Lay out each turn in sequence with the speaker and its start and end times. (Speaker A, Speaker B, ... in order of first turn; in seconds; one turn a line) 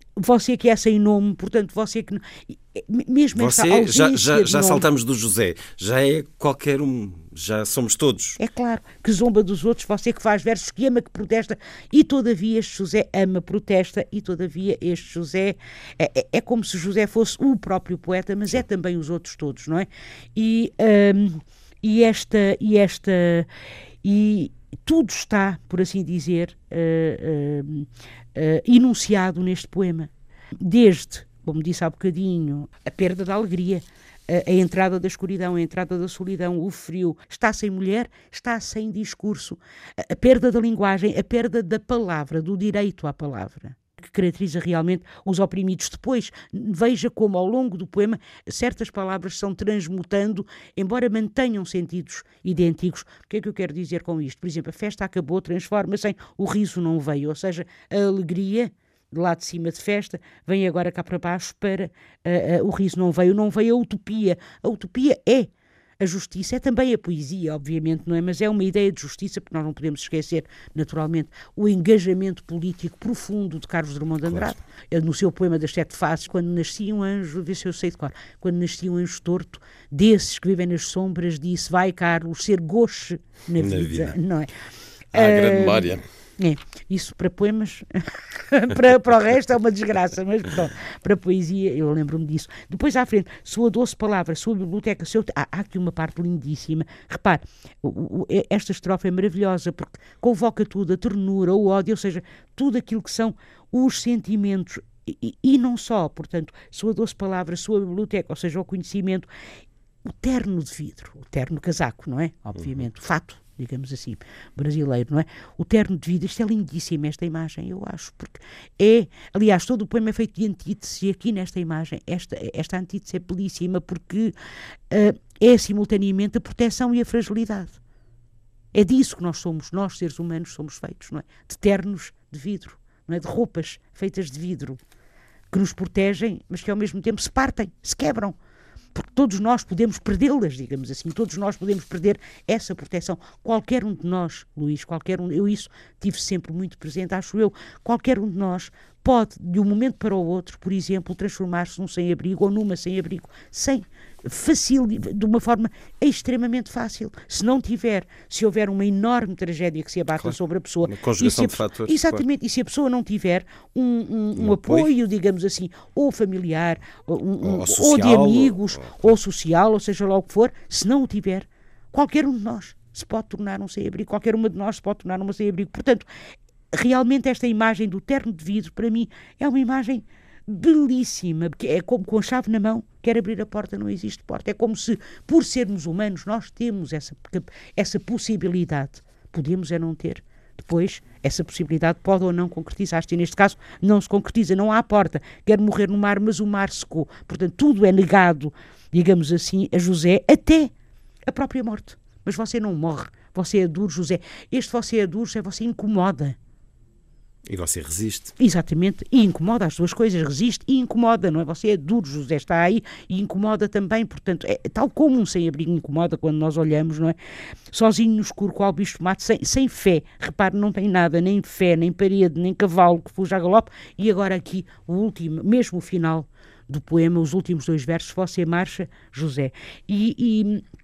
Speaker A: 0.1-4.8
Speaker B: 3.3-8.4
Speaker A: 8.4-23.5
Speaker A: 24.0-84.5
Speaker B: 74.3-74.5
Speaker B: 83.6-84.2
Speaker B: 85.1-86.0
Speaker A: 85.1-109.3
Speaker A: 110.0-124.3
Speaker A: 124.9-127.8
Speaker A: 128.7-134.8
Speaker A: 135.5-138.3
Speaker A: 138.9-176.1
Speaker B: 160.2-162.2
Speaker B: 164.3-164.9
Speaker B: 167.4-169.1
Speaker A: 176.7-200.7
Speaker A: 201.3-206.3
Speaker B: 207.5-208.3
Speaker A: 208.4-217.2
Speaker A: 217.7-230.6